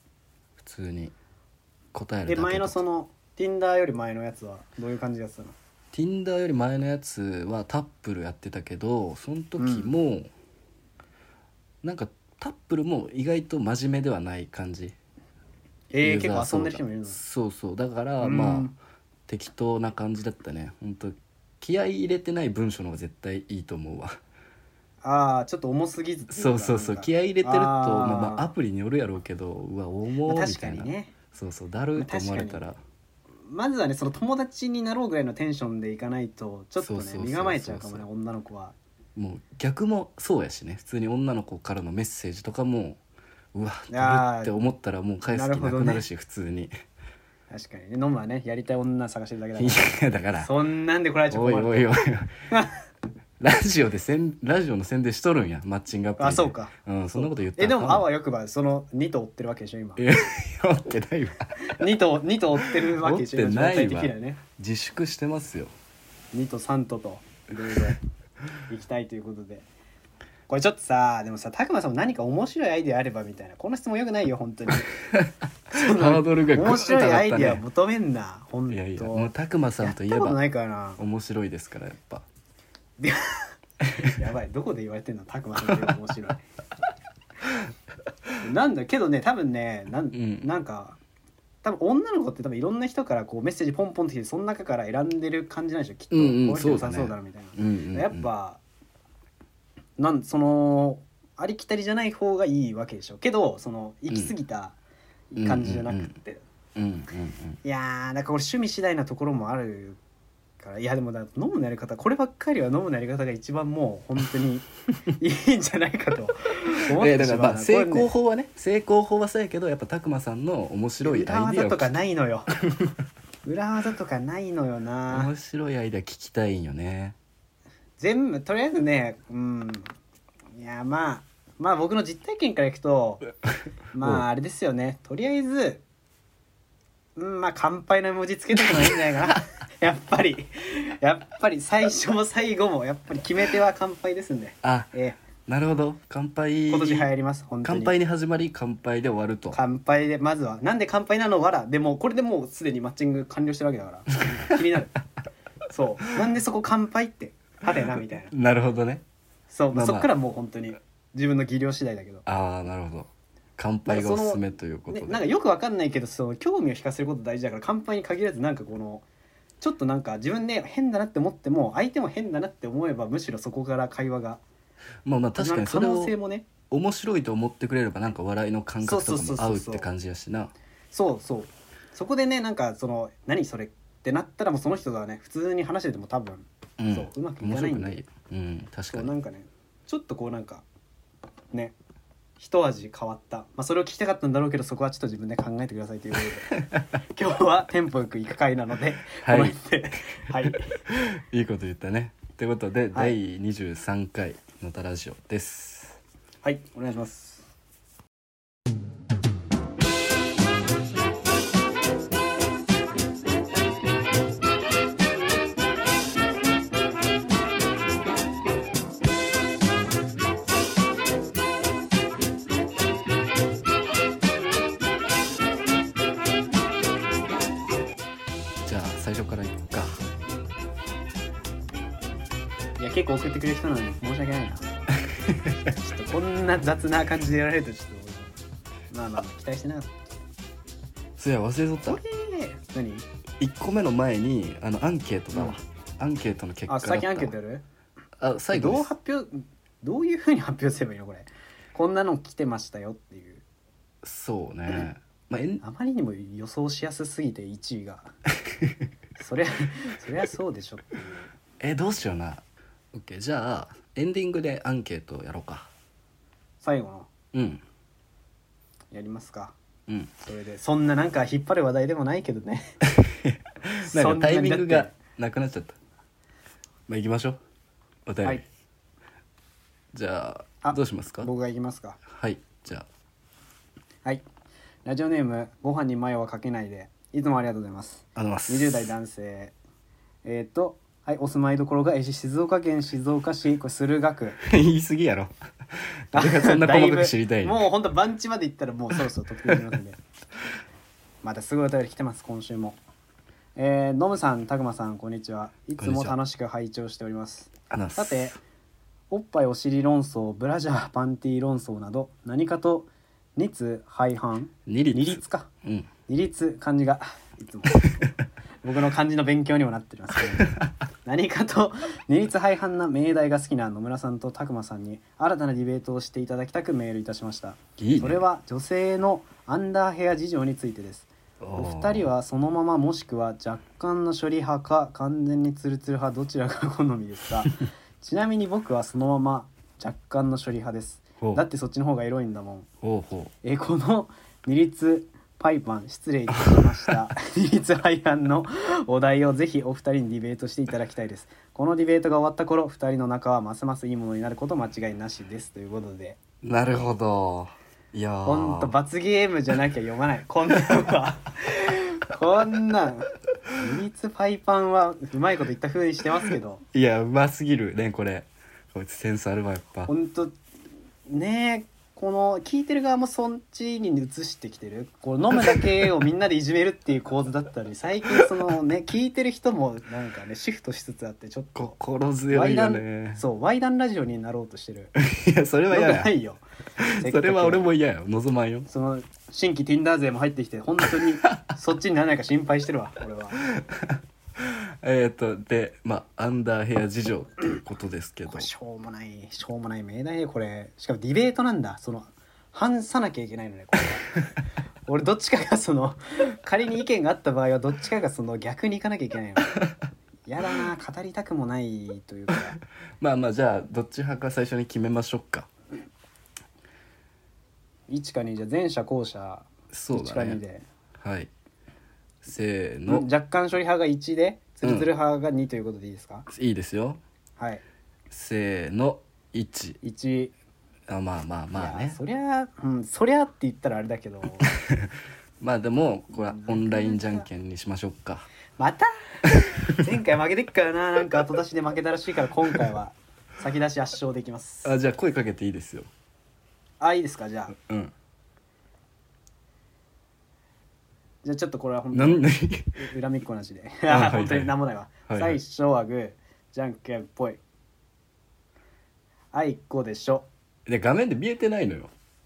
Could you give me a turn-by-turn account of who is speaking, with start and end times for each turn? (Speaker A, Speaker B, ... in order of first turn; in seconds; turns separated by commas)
Speaker A: 0.6-1.1, Speaker A: 1.9-2.8, Speaker B: 2.2-5.5, Speaker A: 5.9-10.3, Speaker B: 9.6-9.9, Speaker A: 11.8-14.9, Speaker B: 15.9-17.2, Speaker A: 16.0-18.7, Speaker B: 18.2-18.8, Speaker A: 19.3-24.2, Speaker B: 25.0-28.5, Speaker A: 26.3-32.8, Speaker B: 30.2-31.1, Speaker B: 31.9-32.6, Speaker B: 33.5-38.8, Speaker A: 36.8-38.0, Speaker A: 39.1-43.0, Speaker A: 43.5-46.7, Speaker B: 43.9-44.5, Speaker B: 45.3-46.0, Speaker B: 47.5-51.9, Speaker A: 49.6-50.5, Speaker A: 51.3-52.3, Speaker A: 53.4-58.1, Speaker B: 56.2-60.0, Speaker A: 60.0-61.8, Speaker B: 61.6-64.4, Speaker A: 62.6-65.7, Speaker B: 66.3-68.0, Speaker B: 68.7-69.7, Speaker B: 70.5-74.9, Speaker A: 75.0-77.6, Speaker B: 75.7-81.0, Speaker A: 78.7-80.4, Speaker A: 81.0-82.2, Speaker B: 83.0-86.4, Speaker B: 88.4-91.0, Speaker A: 90.1-90.5, Speaker B: 91.6-98.6, Speaker A: 96.1-98.3, Speaker B: 100.0-104.8, Speaker B: 105.3-106.4, Speaker A: 105.4-106.1, Speaker A: 106.8-107.6, Speaker B: 107.6-110.0, Speaker B: 110.6-118.1, Speaker A: 116.9-122.0, Speaker B: 121.0-122.5, Speaker B: 123.4-125.3, Speaker A: 125.1-127.2, Speaker B: 128.0-129.9, Speaker B: 130.5-133.3, Speaker B: 133.9-135.8, Speaker B: 137.2-145.2, Speaker A: 138.6-139.4, Speaker A: 144.6-144.9, Speaker A: 145.4-147.1, Speaker B: 146.7-147.9, Speaker A: 147.6-149.6, Speaker B: 149.5-154.9, Speaker A: 154.3-154.6, Speaker B: 155.7-158.3, Speaker A: 158.3-159.0, Speaker B: 159.5-162.2, Speaker A: 159.7-160.1, Speaker A: 162.2-165.2, Speaker B: 163.9-169.0, Speaker B: 169.6-174.4, Speaker A: 175.0-176.1, Speaker B: 175.4-176.5, Speaker A: 176.7-180.5, Speaker B: 178.8-179.9, Speaker B: 180.9-188.0, Speaker A: 186.8-189.1, Speaker B: 188.9-190.6, Speaker B: 192.4-196.6, Speaker B: 197.1-200.8, Speaker A: 199.2-199.6, Speaker A: 200.4-206.0, Speaker B: 206.4-207.5, Speaker A: 228.6-230.0, Speaker B: 232.8-234.8, Speaker A: 235.2-235.7, Speaker B: 235.7-238.4, Speaker B: 238.9-239.9, Speaker A: 241.2-242.0, Speaker B: 241.8-243.1, Speaker A: 243.4-247.3, Speaker B: 246.7-247.6, Speaker A: 248.2-248.9, Speaker B: 248.5-253.4, Speaker A: 254.0-255.6, Speaker B: 255.6-258.1, Speaker B: 259.2-261.3, Speaker A: 261.6-265.7, Speaker B: 266.6-267.1, Speaker A: 267.3-267.6, Speaker B: 268.9-269.5, Speaker B: 270.2-272.7, Speaker A: 272.9-275.8, Speaker B: 273.8-274.9, Speaker A: 276.9-277.4, Speaker A: 278.1-278.4, Speaker A: 279.9-281.3, Speaker B: 280.6-282.0, Speaker A: 282.1-282.9, Speaker B: 284.9-289.5, Speaker A: 288.1-288.9, Speaker B: 290.2-294.4, Speaker A: 294.4-297.6, Speaker B: 296.1-300.0, Speaker B: 301.2-302.8, Speaker B: 303.6-308.4, Speaker A: 305.8-306.1, Speaker A: 307.7-308.4, Speaker B: 309.1-315.5, Speaker A: 314.6-315.9, Speaker B: 316.1-318.1, Speaker B: 318.6-342.7, Speaker A: 320.4-320.7, Speaker A: 327.8-328.2, Speaker A: 331.4-332.1, Speaker A: 342.8-343.3, Speaker B: 343.4-356.2, Speaker A: 346.5-346.9, Speaker A: 356.4-358.7, Speaker B: 358.2-366.6, Speaker A: 366.7-369.9, Speaker B: 369.9-370.4, Speaker B: 371.1-381.7, Speaker A: 381.6-383.2, Speaker B: 382.3-384.9, Speaker A: 385.0-386.1, Speaker B: 385.7-386.4, Speaker A: 386.8-388.7, Speaker B: 386.9-387.6, Speaker B: 388.7-393.4, Speaker A: 390.9-391.4, Speaker A: 393.4-398.5, Speaker B: 398.3-404.2, Speaker B: 404.9-409.6, Speaker B: 410.3-412.6, Speaker A: 413.0-415.5, Speaker B: 417.9-420.6, Speaker A: 419.7-420.4, Speaker A: 421.0-421.3, Speaker A: 422.2-423.1, Speaker B: 422.9-426.3, Speaker A: 424.6-424.9, Speaker A: 426.3-427.0, Speaker A: 428.1-429.8, Speaker B: 429.8-430.3, Speaker A: 430.9-432.0, Speaker B: 431.6-434.6, Speaker A: 434.4-438.3, Speaker B: 436.2-437.2, Speaker B: 438.6-444.7, Speaker A: 439.3-439.6, Speaker A: 444.6-445.9, Speaker B: 446.8-447.6, Speaker A: 447.5-447.9, Speaker B: 451.2-457.4, Speaker A: 451.9-452.8, Speaker A: 453.9-454.5, Speaker A: 455.1-455.4, Speaker B: 459.3-460.3, Speaker A: 460.6-461.9